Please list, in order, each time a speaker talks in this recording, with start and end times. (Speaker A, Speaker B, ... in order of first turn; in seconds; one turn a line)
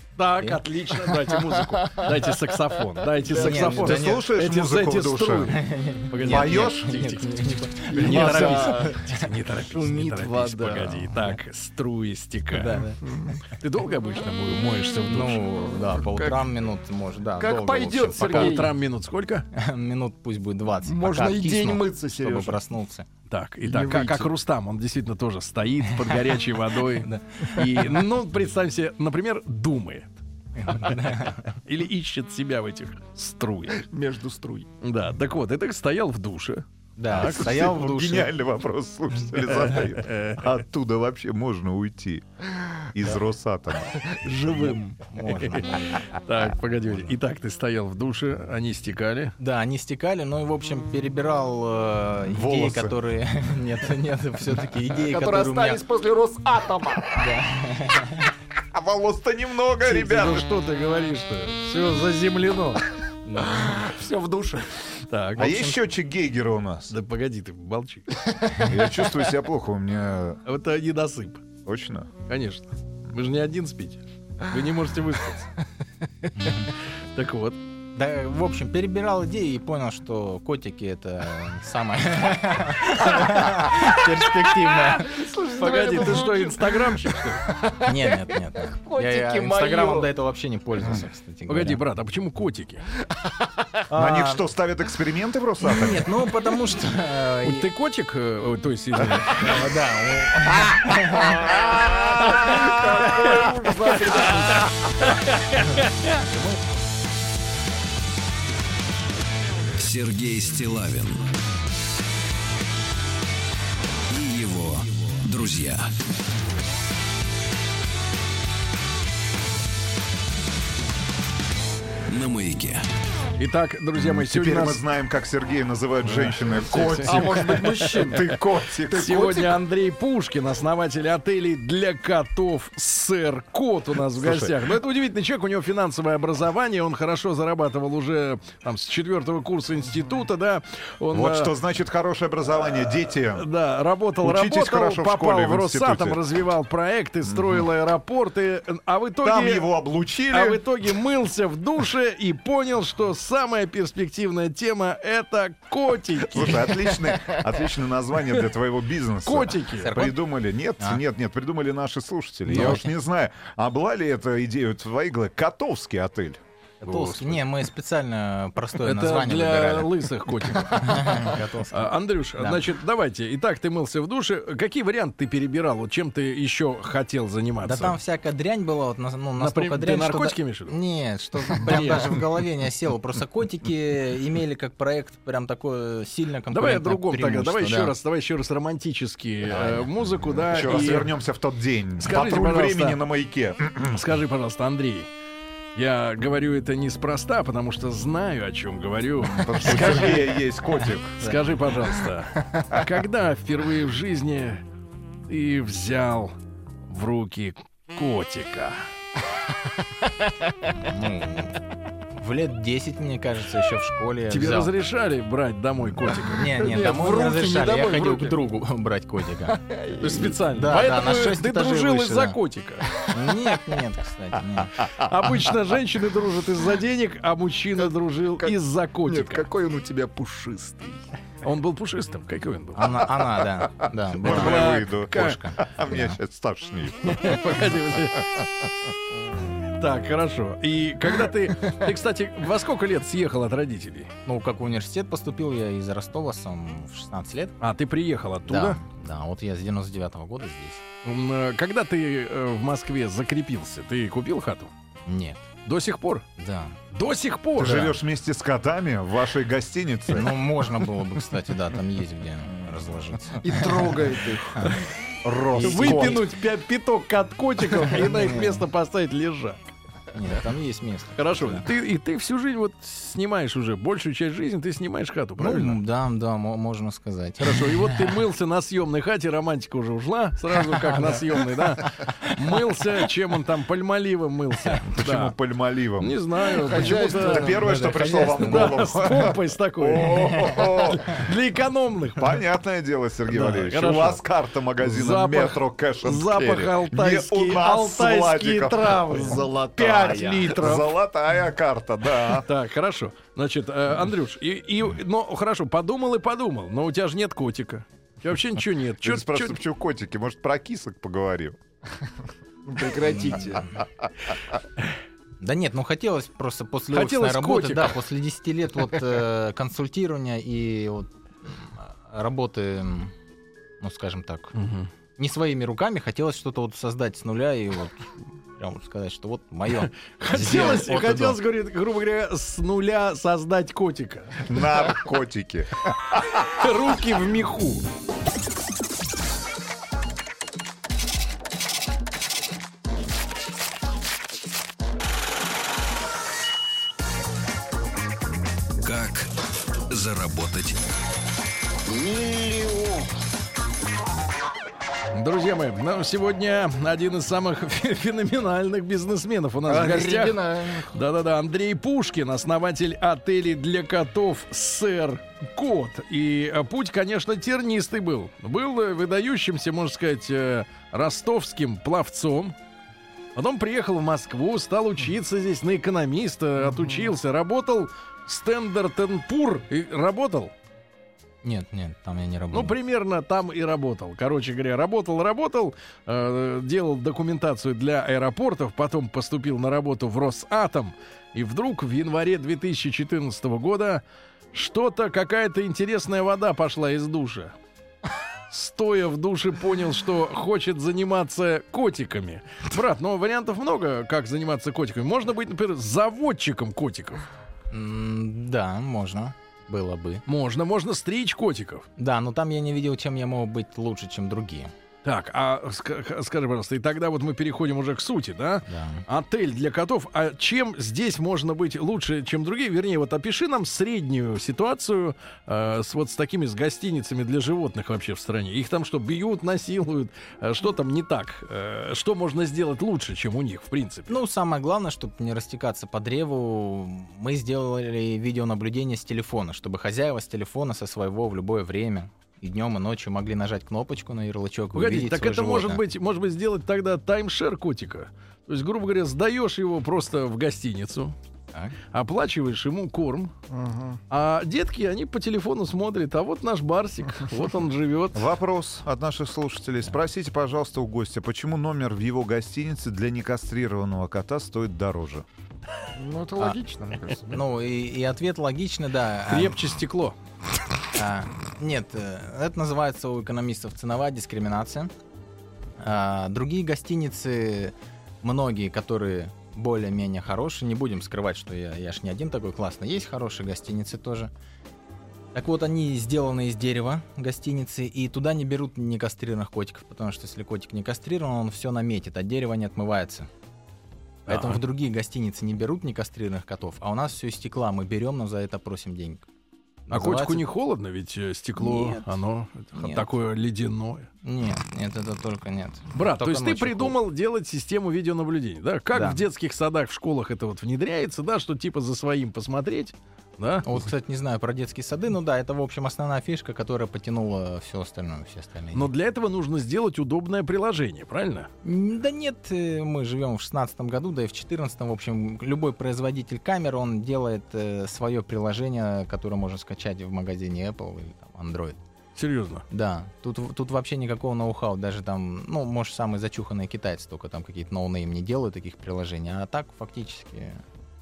Speaker A: 0.2-5.6
Speaker B: 0.4-1.1
Speaker C: 1.8-2.1
Speaker C: 3.1-3.7
Speaker B: 3.4-4.4
Speaker D: 3.6-5.6
Speaker B: 5.5-9.3
Speaker A: 6.1-12.8
Speaker D: 6.2-7.1
Speaker C: 7.9-9.0
Speaker D: 8.1-8.4
Speaker C: 9.7-11.1
Speaker B: 12.5-13.3
Speaker C: 13.0-13.4
Speaker A: 13.5-15.4
Speaker B: 15.1-18.7
Speaker C: 15.8-16.5
Speaker C: 17.4-18.7
Speaker A: 18.2-19.5
Speaker B: 19.5-23.1
Speaker C: 20.8-22.6
Speaker A: 23.3-30.2
Speaker C: 23.6-24.3
Speaker B: 27.0-27.8
Speaker B: 30.6-31.6
Speaker A: 30.7-33.9
Speaker C: 33.8-34.7
Speaker A: 34.8-37.6
Speaker B: 37.0-38.3
Speaker D: 37.2-42.2
Speaker A: 39.6-40.4
Speaker D: 42.9-44.0
Speaker A: 44.2-49.4
Speaker B: 44.5-46.1
Speaker B: 49.4-55.8
Speaker D: 52.3-53.0
Speaker C: 54.9-57.2
Speaker B: 57.2-58.3
Speaker D: 58.7-60.5
Speaker A: 59.8-62.8
Speaker B: 63.3-63.6
Speaker C: 63.4-65.0
Speaker A: 65.1-65.5
Speaker B: 65.4-65.8
Speaker D: 65.4-67.0
Speaker A: 66.9-68.2
Speaker D: 68.6-70.4
Speaker A: 70.5-71.5
Speaker D: 71.7-72.1
Speaker A: 72.3-75.5
Speaker A: 76.3-77.6
Speaker B: 76.4-76.7
Speaker B: 77.9-85.3
Speaker C: 84.8-88.2
Speaker A: 85.6-87.5
Speaker B: 87.8-91.8
Speaker C: 88.7-90.1
Speaker A: 91.5-92.9
Speaker B: 93.9-94.4
Speaker D: 93.9-96.1
Speaker B: 95.6-97.7
Speaker A: 97.4-99.5
Speaker B: 99.3-101.6
Speaker C: 101.2-104.9
Speaker E: 109.8-111.3
Speaker E: 114.1-115.9
Speaker E: 122.1-122.9
Speaker A: 123.4-124.8
Speaker D: 124.0-129.4
Speaker A: 126.0-128.2
Speaker C: 126.7-129.5
Speaker A: 128.9-141.5
Speaker D: 134.2-134.6
Speaker D: 141.1-143.5
Speaker A: 142.7-149.7
Speaker D: 144.2-146.2
Speaker D: 147.3-147.6
Speaker D: 149.2-150.6
Speaker A: 150.3-157.1
Speaker D: 156.2-166.4
Speaker A: 159.2-160.0
Speaker B: 159.8-160.2
Speaker B: 162.5-162.9
Speaker B: 166.8-172.7
Speaker A: 166.8-167.4
Speaker A: 168.8-178.0
Speaker B: 177.6-187.9
Speaker A: 179.4-180.8
Speaker A: 181.5-182.2
Speaker A: 186.5-191.2
Speaker B: 189.5-189.9
Speaker D: 190.5-194.0
Speaker A: 192.0-193.0
Speaker A: 193.9-195.1
Speaker A: 195.8-200.4
Speaker D: 199.3-201.3
Speaker B: 199.4-200.2
Speaker A: 201.2-204.6
Speaker A: 205.3-206.3
Speaker A: 206.9-208.9
Speaker B: 210.8-211.6
Speaker B: 212.2-214.7
Speaker A: 214.3-216.5
Speaker B: 216.1-219.6
Speaker C: 216.6-218.4
Speaker C: 219.5-220.4
Speaker A: 220.0-223.1
Speaker B: 220.5-222.4
Speaker B: 223.0-224.9
Speaker A: 224.9-229.5
Speaker C: 227.8-231.1
Speaker A: 231.4-233.0
Speaker B: 232.8-236.2
Speaker D: 234.1-237.4
Speaker A: 234.2-235.4
Speaker A: 237.1-238.3
Speaker A: 239.8-244.1
Speaker B: 244.2-247.6
Speaker A: 247.6-248.8
Speaker B: 248.5-250.8
Speaker A: 251.0-254.7
Speaker B: 255.1-255.4
Speaker A: 255.7-256.3
Speaker B: 256.4-256.8
Speaker A: 256.9-258.0
Speaker D: 257.6-260.4
Speaker B: 260.1-263.9
Speaker C: 263.4-264.8
Speaker D: 265.2-266.2
Speaker B: 265.5-266.2
Speaker A: 265.6-269.6
Speaker B: 268.0-268.6
Speaker B: 270.1-271.7
Speaker A: 271.2-275.8
Speaker B: 275.4-278.1
Speaker A: 277.4-285.4
Speaker B: 280.7-282.6
Speaker D: 284.9-291.2
Speaker A: 286.0-287.6
Speaker C: 286.6-288.2
Speaker B: 287.5-288.9
Speaker A: 288.4-292.4
Speaker B: 290.1-290.6
Speaker D: 292.2-299.4
Speaker A: 293.3-294.2
Speaker A: 294.8-300.9
Speaker C: 299.1-300.6
Speaker D: 300.4-302.5
Speaker A: 302.2-309.6
Speaker D: 309.0-311.6
Speaker C: 312.6-313.8
Speaker B: 315.4-323.1
Speaker A: 316.9-318.0
Speaker B: 323.8-324.6
Speaker A: 324.6-324.9
Speaker B: 325.2-331.4
Speaker A: 330.2-334.6
Speaker D: 334.5-336.5
Speaker A: 336.4-337.9
Speaker E: 348.8-349.3
Speaker E: 349.9-350.8
Speaker C: 351.8-353.2
Speaker A: 355.1-372.6
Speaker C: 359.6-361.0
Speaker A: 373.4-380.5
Speaker B: 381.4-382.8
Speaker A: 382.5-394.0
Speaker A: 394.5-397.5
Speaker A: 398.5-407.2
Speaker B: 407.7-410.2
Speaker A: 410.3-411.9
Speaker B: 412.0-414.7
Speaker A: 415.0-434.2
Speaker B: 418.7-419.1
Speaker B: 434.1-445.8
Speaker A: 444.8-451.1
Speaker A: 451.9-453.3
Speaker C: 453.5-454.0
Speaker A: 454.1-458.3
Speaker D: 458.1-465.2
Speaker C: 465.9-467.4
Speaker B: 467.3-469.6
Speaker A: 469.3-470.2
Speaker B: 470.9-474.9
Speaker B: 475.8-484.3
Speaker B: 485.3-493.3
Speaker A: 494.3-494.6
Speaker B: 494.3-499.3
Speaker B: 499.9-500.4
Speaker A: 499.9-504.1
Speaker B: 501.6-502.2
Speaker B: 502.8-503.1
Speaker B: 504.2-507.0
Speaker A: 505.9-513.9
Speaker B: 508.9-509.2
Speaker B: 513.6-518.9
Speaker A: 518.7-521.5
Speaker B: 521.6-531.8
Speaker A: 532.2-532.6
Speaker B: 532.7-540.6